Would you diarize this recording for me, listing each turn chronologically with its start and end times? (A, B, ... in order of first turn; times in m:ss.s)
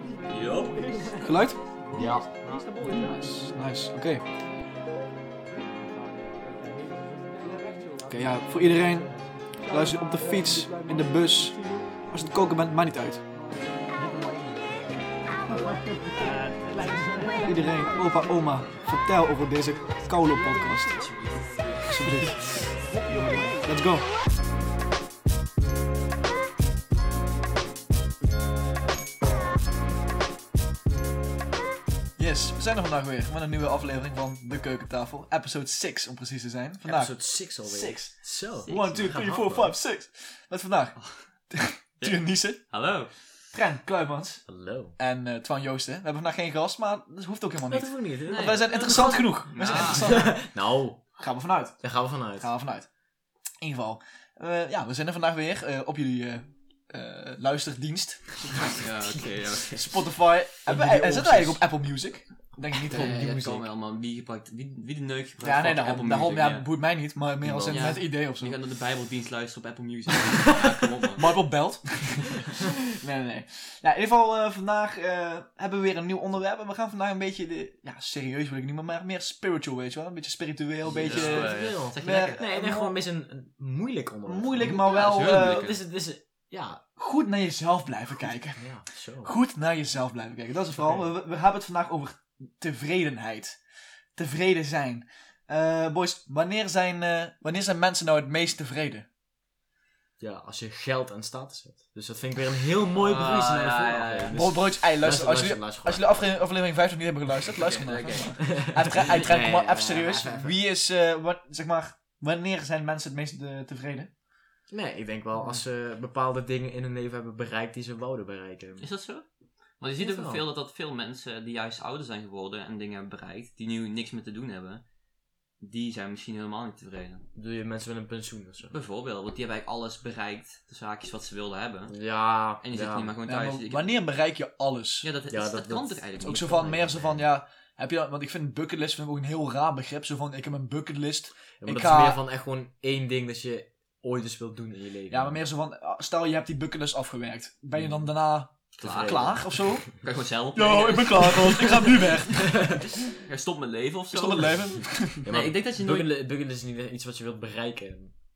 0:00.3-0:01.2 A
0:01.2-0:02.0 B
0:02.0-0:02.3 C
0:03.1-0:04.2 B
0:08.0-0:13.2 B
0:16.8-0:21.1 B
0:21.0-0:21.8 A
0:21.8-0:24.1 B
0:32.2-0:42.7 B
0:36.8-0:39.7 C
0:38.6-0:39.2 A
0:41.0-0:41.2 A
0:42.0-0:43.1 A
0:43.5-0:44.4 B
0:44.5-0:45.0 C
0:45.0-0:50.4 B
0:47.7-0:51.1 C
0:48.3-0:50.3 A
0:51.2-0:52.9 B
0:51.8-0:52.5 C
0:53.6-0:58.8 B
0:58.7-1:00.0 A
0:59.7-1:03.6 B
1:00.6-1:01.6 C
1:02.9-1:06.7 A
1:05.4-1:08.6 B
1:07.4-1:08.0 C
1:07.7-1:11.3 A
1:11.2-1:23.0 B
1:20.8-1:26.8 C
1:20.9-1:22.4 A
1:24.3-1:25.7 B
1:24.6-1:25.8 A
1:27.0-1:28.7 B
1:28.6-1:29.3 C
1:29.2-1:33.6 B
1:30.7-1:31.1 C
1:34.2-1:39.0 B
1:40.2-1:46.2 C
1:43.0-1:44.4 A
1:44.3-1:54.1 B
1:47.5-1:49.2 A
1:48.3-1:50.5 C
1:54.7-1:58.9 C
1:55.4-1:55.6 A
1:58.8-1:59.2 A
1:59.8-2:04.8 A
2:00.0-2:00.4 C
2:05.6-2:07.2 A
2:07.3-2:08.8 C
2:08.7-2:11.9 A
2:11.9-2:13.1 C
2:12.6-2:14.0 A
2:13.2-2:15.1 B
2:15.0-2:17.2 A
2:15.3-2:16.2 C
2:16.2-2:22.2 B
2:16.8-2:17.2 C
2:21.6-2:25.4 C
2:25.1-2:29.9 B
2:28.8-2:36.1 A
2:28.8-2:29.9 C
2:30.5-2:32.8 B
2:32.3-2:32.8 C
2:34.1-2:35.2 B
2:35.2-2:38.1 C